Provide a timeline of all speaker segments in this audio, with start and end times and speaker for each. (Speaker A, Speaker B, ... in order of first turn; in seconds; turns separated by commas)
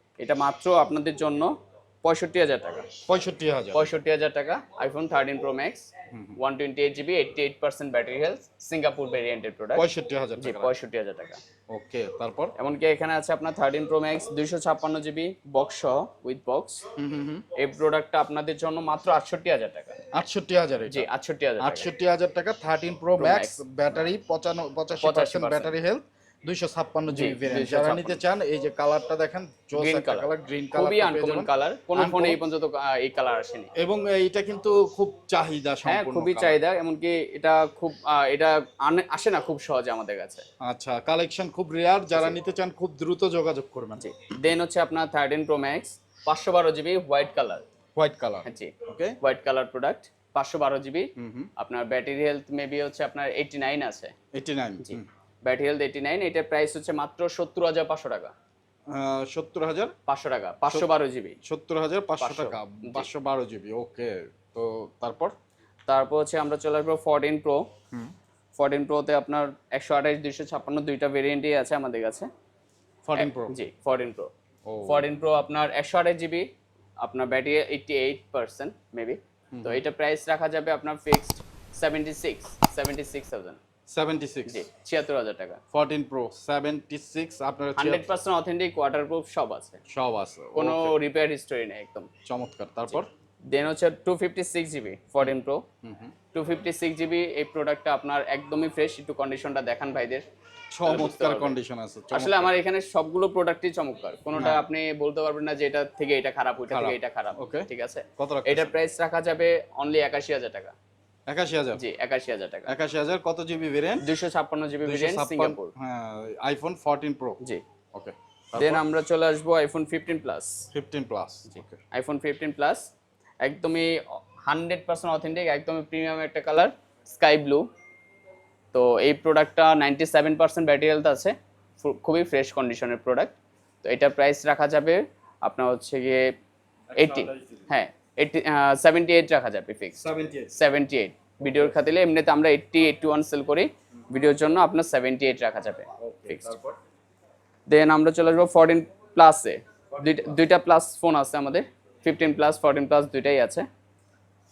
Speaker A: 0.2-2.9, Speaker B: 3.1-4.0, Speaker A: 3.7-9.9, Speaker B: 9.8-10.7, Speaker A: 10.4-11.4, Speaker B: 11.7-12.5, Speaker A: 12.6-16.8, Speaker B: 17.0-17.4, Speaker A: 17.6-20.0, Speaker B: 20.1-21.1, Speaker A: 20.9-21.9, Speaker B: 21.6-32.4, Speaker A: 23.2-23.6, Speaker A: 25.0-25.7, Speaker A: 27.1-28.2, Speaker A: 29.7-33.7, Speaker B: 33.8-36.6, Speaker A: 35.9-40.4, Speaker B: 40.6-44.1, Speaker A: 44.0-47.6, Speaker B: 48.0-49.2, Speaker A: 48.5-54.1, Speaker B: 51.2-51.5, Speaker B: 54.3-55.1, Speaker A: 54.8-58.3, Speaker B: 58.9-59.9, Speaker A: 60.1-61.4, Speaker B: 61.5-65.3, Speaker A: 62.2-63.1, Speaker A: 65.9-67.7, Speaker A: 68.6-72.3, Speaker B: 73.1-73.5, Speaker A: 73.2-74.3, Speaker B: 74.7-75.1, Speaker A: 74.8-76.5, Speaker A: 77.0-83.6, Speaker B: 79.5-79.8, Speaker B: 83.9-84.7, Speaker A: 84.5-85.6, Speaker B: 85.7-88.1, Speaker A: 87.8-89.8, Speaker B: 89.9-91.0, Speaker A: 90.6-92.1, Speaker B: 92.2-93.1, Speaker A: 93.5-95.6, Speaker B: 95.2-96.1, Speaker A: 96.3-100.2, Speaker B: 100.7-102.5, Speaker A: 100.9-101.5, Speaker A: 102.1-110.8, Speaker B: 104.3-104.7, Speaker B: 106.7-108.8, Speaker B: 111.3-111.8, Speaker A: 111.8-112.7, Speaker B: 112.7-114.1, Speaker A: 114.0-115.7, Speaker B: 114.8-117.4, Speaker B: 117.9-118.9, Speaker A: 118.6-120.6, Speaker B: 120.7-121.8, Speaker A: 121.5-127.7, Speaker A: 128.7-136.3, Speaker B: 136.9-137.7, Speaker A: 137.0-146.6, Speaker B: 140.0-140.5, Speaker B: 141.4-141.8, Speaker B: 146.0-146.8, Speaker A: 147.7-153.7, Speaker B: 149.9-150.4